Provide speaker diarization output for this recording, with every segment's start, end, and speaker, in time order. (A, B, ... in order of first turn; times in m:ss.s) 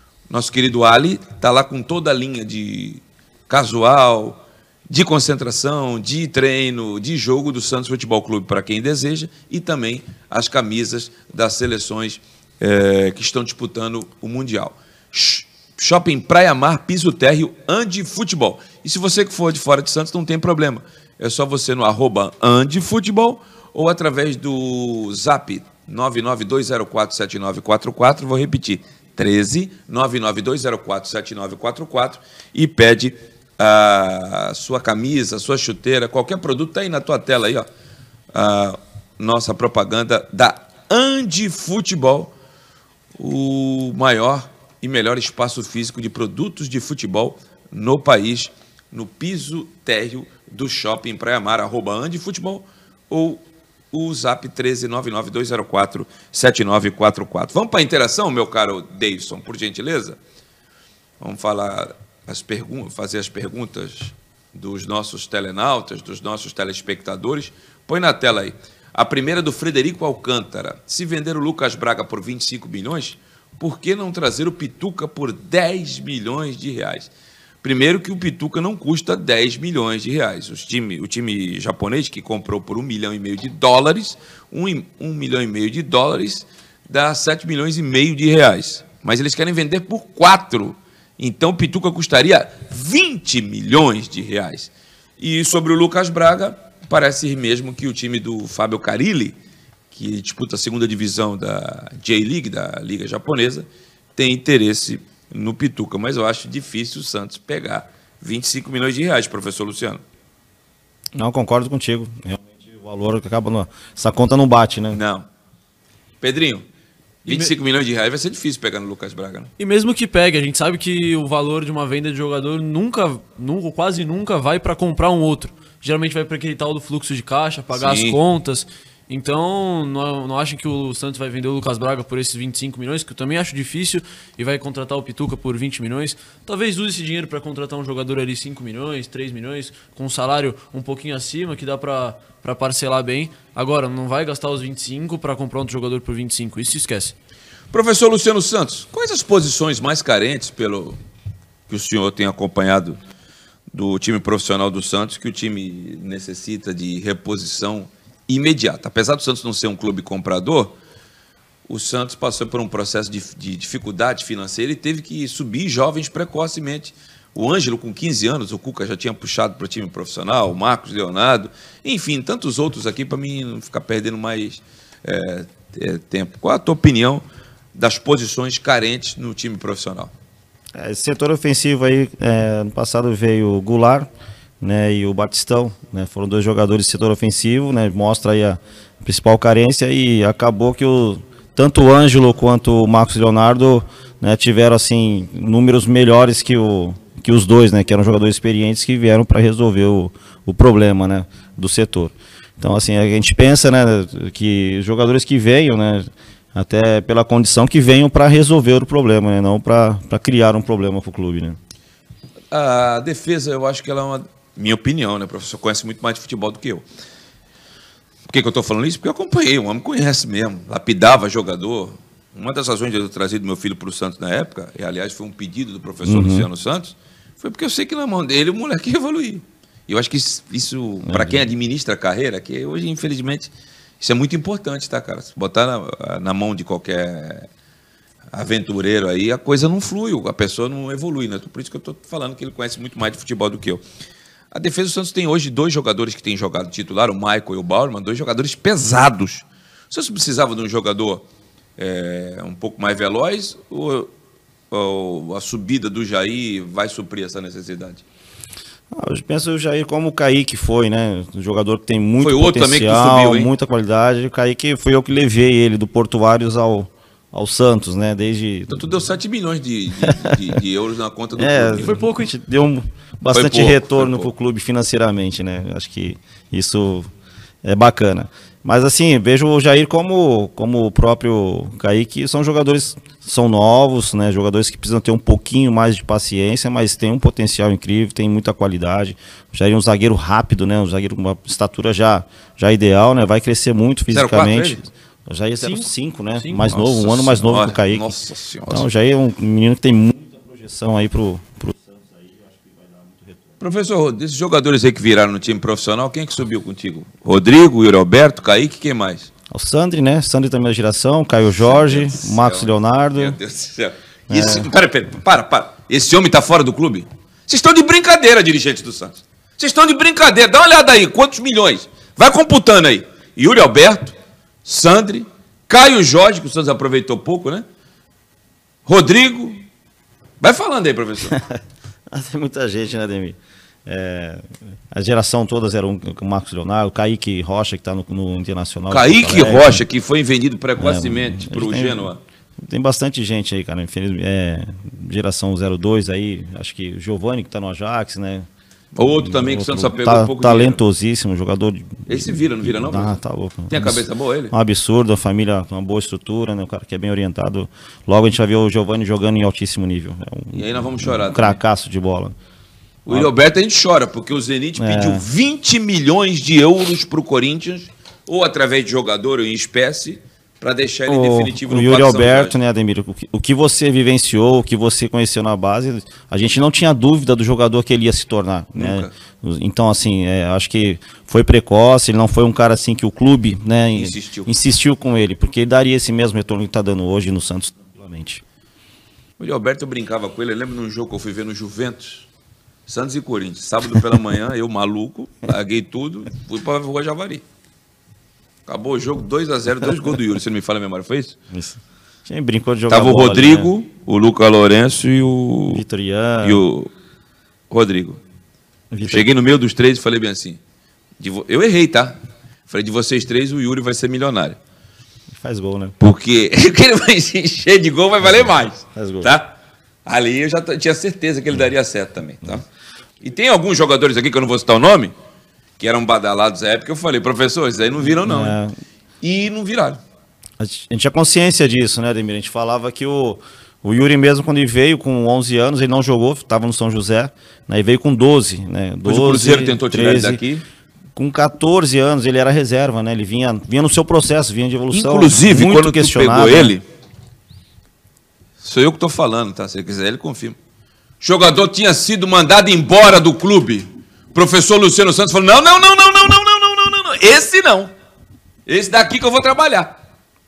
0:00.3-0:37.7 A
0:38.3-0:42.3 A
0:43.2-1:00.2 A
1:01.2-1:17.1 A
1:17.6-1:39.4 A
1:39.9-1:50.0 A
1:51.2-1:55.0 B
1:54.9-1:55.3 A
1:56.2-1:56.6 A
1:57.2-1:59.5 A
1:57.3-1:57.5 C
1:59.6-2:27.1 C
2:07.7-2:08.2 A
2:27.7-2:31.0 A
2:31.7-2:33.0 A
2:33.7-2:40.8 A
2:41.7-3:00.1 A
3:00.8-3:04.1 B
3:04.6-3:31.6 B
3:32.5-3:36.8 A
3:38.3-3:57.5 A
3:46.0-3:46.5 B
3:51.1-3:51.5 B
3:58.3-4:03.8 A
4:04.5-4:11.3 A
4:11.8-4:14.1 A
4:14.7-4:18.0 A
4:18.9-4:28.8 B
4:22.2-4:23.5 A
4:28.7-4:32.0 A
4:30.0-4:30.3 B
4:31.4-4:37.1 B
4:33.3-4:34.3 A
4:37.6-4:58.2 B
4:54.1-4:54.8 A
4:55.6-4:56.7 C
4:56.6-4:58.9 A
4:58.7-5:03.6 B
5:03.6-5:09.3 A
5:09.5-5:13.4 B
5:11.6-5:27.6 A
5:14.3-5:14.7 B
5:28.9-5:29.6 A
5:30.4-5:31.4 A
5:32.1-5:39.8 B
5:38.9-5:42.2 A
5:40.8-5:48.5 B
5:49.0-5:50.8 A
5:49.1-6:02.4 B
5:52.1-5:53.2 A
5:53.7-5:54.5 A
6:00.5-6:01.6 A
6:03.1-6:12.6 A
6:04.8-6:05.2 B
6:11.1-6:28.4 B
6:18.8-6:19.1 A
6:23.9-6:24.5 A
6:29.4-6:32.3 A
6:32.9-6:37.4 A
6:38.7-6:41.4 A
6:41.5-6:43.7 B
6:42.9-6:45.8 A
6:45.7-6:46.6 B
6:46.4-6:46.9 A
6:47.7-6:48.2 A
6:48.9-6:49.3 B
6:49.1-6:50.6 A
6:51.2-6:52.2 A
6:52.7-6:54.6 A
6:55.3-6:56.0 B
6:56.0-6:59.6 A
6:58.9-6:59.3 B
7:00.1-7:02.6 A
7:03.2-7:05.1 A
7:05.8-7:08.6 A
7:08.0-7:08.8 B
7:09.2-7:10.0 A
7:10.6-7:20.4 B
7:19.0-7:20.6 A
7:21.2-7:26.8 B
7:24.9-7:26.8 A
7:28.6-7:30.6 A
7:31.2-7:37.9 A
7:38.7-7:40.0 A